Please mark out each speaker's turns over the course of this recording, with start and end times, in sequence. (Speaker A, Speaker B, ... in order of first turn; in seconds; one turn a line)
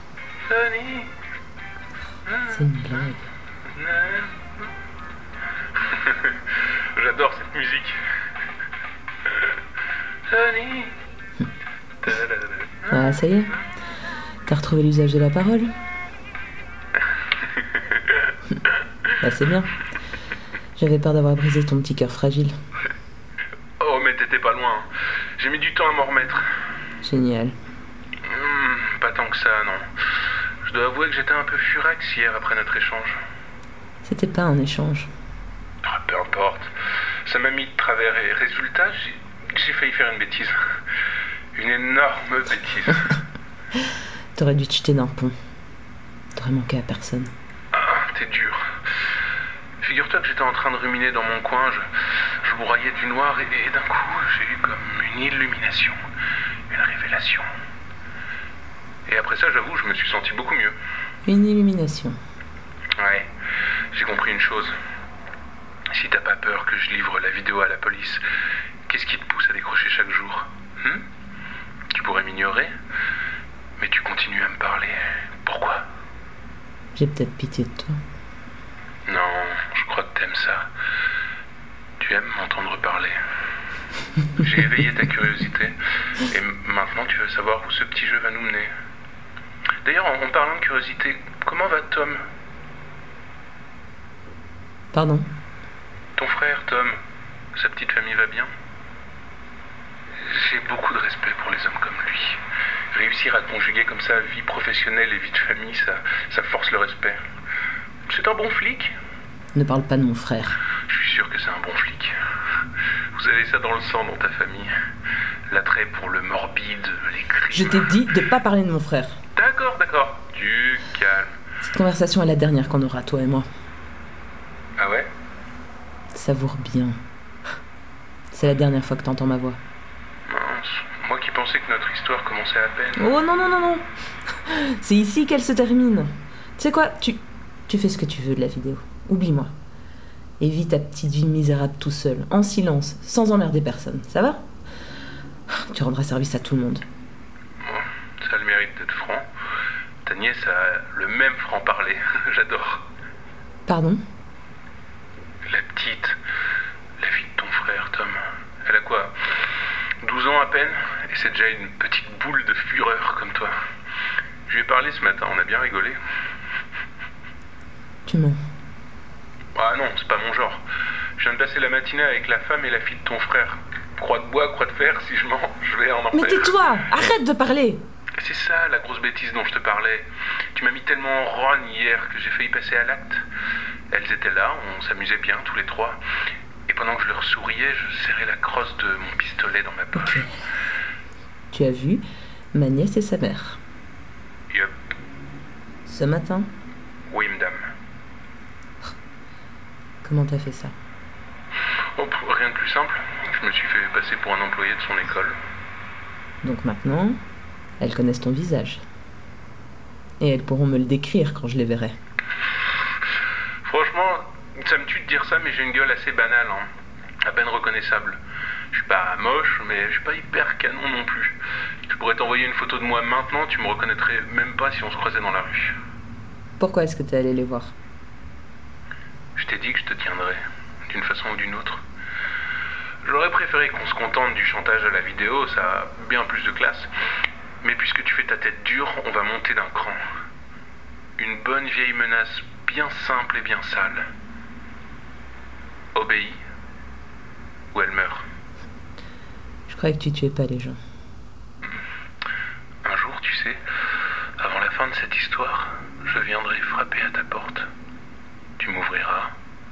Speaker A: 0.5-1.1
Speaker A: 2.3-3.0
Speaker B: 2.5-3.3
Speaker A: 3.7-4.7
Speaker A: 5.8-8.0
Speaker A: 10.3-10.9
Speaker A: 12.0-13.2
Speaker B: 12.9-13.6
Speaker B: 14.5-15.7
Speaker A: 17.2-18.3
Speaker B: 19.2-19.8
Speaker B: 20.8-22.6
Speaker A: 23.8-24.9
Speaker A: 25.4-26.5
Speaker B: 27.0-27.6
Speaker A: 28.2-29.8
Speaker A: 30.6-33.2
Speaker B: 34.0-35.1
Speaker A: 35.8-36.7
Speaker A: 37.3-40.6
Speaker A: 41.5-43.2
Speaker B: 44.4-45.4
Speaker B: 46.4-47.3
Speaker A: 47.7-48.6
Speaker A: 49.8-51.9
Speaker A: 52.4-56.0
Speaker A: 56.7-57.5
Speaker A: 59.1-60.8
Speaker B: 61.2-62.2
Speaker A: 63.0-63.3
Speaker A: 63.9-64.7
Speaker A: 65.9-68.2
Speaker A: 68.9-71.1
Speaker A: 71.9-72.7
Speaker A: 73.8-75.8
Speaker B: 77.0-78.0
Speaker A: 79.1-80.7
Speaker A: 82.0-83.2
Speaker A: 84.4-85.8
Speaker A: 86.3-88.7
Speaker A: 89.8-92.2
Speaker B: 94.9-95.3
Speaker A: 96.2-97.0
Speaker A: 97.5-98.5
Speaker A: 100.2-107.2
Speaker A: 108.1-108.9
Speaker B: 109.5-110.6
Speaker A: 110.9-112.1
Speaker A: 113.1-114.7
Speaker A: 115.5-118.0
Speaker B: 117.5-119.2
Speaker A: 119.4-121.3
Speaker B: 121.6-123.5
Speaker A: 124.8-125.1
Speaker B: 126.1-127.0
Speaker B: 128.3-129.6
Speaker A: 130.3-133.2
Speaker B: 133.0-133.9
Speaker B: 134.4-139.5
Speaker B: 140.4-144.4
Speaker B: 145.7-146.9
Speaker A: 147.6-149.3
Speaker A: 150.0-152.9
Speaker B: 153.7-154.0
Speaker A: 155.5-156.2
Speaker A: 157.0-159.4
Speaker A: 160.0-163.5
Speaker A: 164.5-166.0
Speaker B: 168.1-168.4
Speaker A: 169.6-170.6
Speaker A: 171.2-176.6
Speaker B: 176.1-177.8
Speaker A: 178.2-183.2
Speaker A: 183.9-186.0
Speaker A: 186.7-190.3
Speaker B: 189.9-190.3
Speaker B: 191.5-193.6
Speaker B: 195.9-196.5
Speaker A: 197.1-197.6
Speaker B: 200.0-200.7
Speaker A: 201.9-205.4
Speaker B: 206.4-207.2
Speaker B: 207.8-208.8
Speaker B: 210.2-212.0
Speaker A: 213.6-216.7
Speaker A: 217.2-218.2
Speaker A: 218.7-225.8
Speaker B: 226.6-227.7
Speaker A: 229.4-231.8
Speaker A: 233.0-236.9
Speaker A: 237.6-240.0
Speaker A: 241.2-244.0
Speaker A: 245.9-246.4
Speaker A: 247.7-248.3
Speaker B: 249.7-250.8
Speaker A: 252.8-253.6
Speaker A: 254.4-257.7
Speaker A: 258.6-259.3